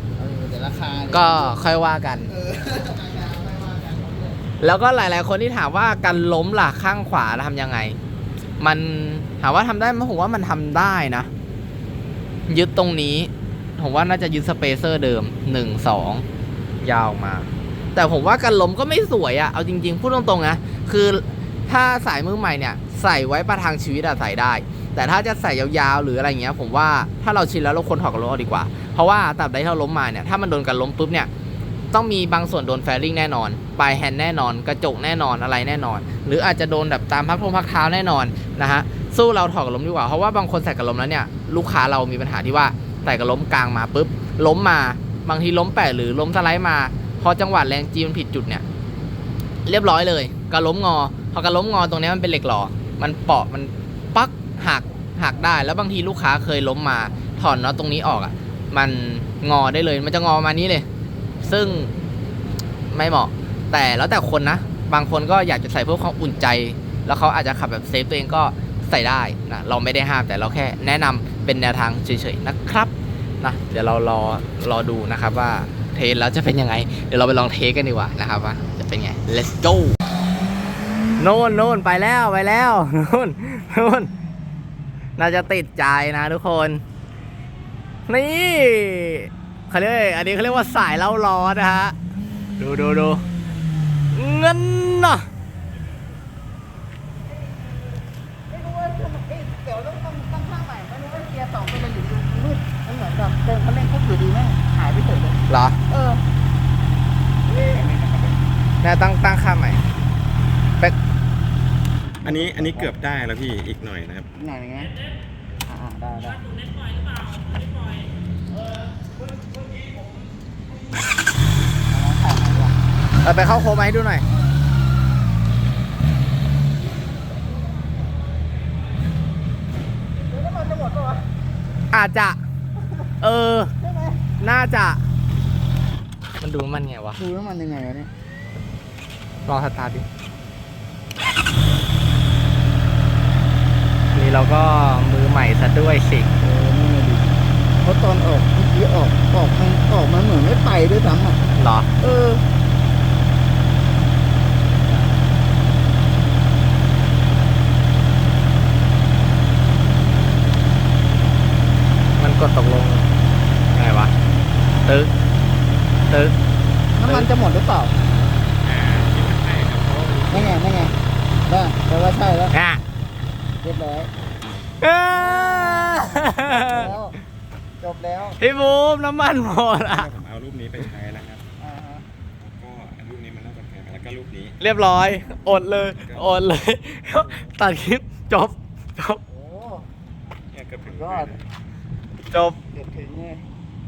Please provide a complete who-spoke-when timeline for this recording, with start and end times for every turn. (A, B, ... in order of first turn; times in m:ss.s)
0:00.2-0:01.7 A
0:01.1-0:02.3 B
0:02.2-0:04.4 A
0:04.6-0:08.0 B
0:08.6-0:11.3 B
0:12.5-0:16.2 B
0:16.8-0:31.3 B
0:31.9-0:48.6 B
0:49.6-1:00.8 B
1:01.4-1:01.9 B
1:02.9-1:19.9 B
1:21.2-1:24.1 B
1:25.2-1:26.8 B
1:28.1-1:31.9 B
1:32.6-1:33.2 B
1:34.1-1:35.2 B
1:38.5-1:46.2 A
1:45.5-1:45.8 B
1:47.5-1:47.8 A
1:47.6-1:48.4 C
1:48.8-1:49.8 B
1:52.2-1:54.3 C
1:52.2-1:52.9 A
1:54.3-1:54.9 A
1:55.6-1:56.5 A
2:01.9-2:02.8 A
2:03.2-2:04.2 B
2:04.3-2:04.5 A
2:10.4-2:11.2 A
2:11.9-2:12.4 B
2:13.2-2:13.7 B
2:13.8-2:14.2 A
2:14.4-2:15.0 B
2:16.4-2:17.2 B
2:17.2-2:18.1 A
2:19.4-2:20.0 B
2:24.1-2:26.3 B
2:26.4-2:31.4 A
2:31.5-2:31.9 B
2:32.0-2:32.4 A
2:42.2-2:43.1 B
2:43.7-2:44.1 B
2:44.8-2:45.1 B
2:46.1-2:46.3 B
2:46.9-2:47.9 A
2:47.0-2:47.3 B
2:48.6-2:50.0 C
2:49.8-2:50.6 B
2:50.3-2:52.5 A
2:52.5-2:52.8 B
2:53.6-2:54.1 A
2:54.8-2:56.9 B
2:55.1-2:57.2 A
2:57.8-2:58.4 A
2:58.4-3:00.1 B
2:59.8-3:01.4 C
3:01.6-3:02.0 A
3:02.4-3:04.6 C
3:04.6-3:09.2 B
3:05.9-3:06.4 C
3:09.3-3:09.9 A
3:10.5-3:11.4 C
3:10.9-3:11.3 A
3:12.3-3:12.6 B
3:12.7-3:13.4 A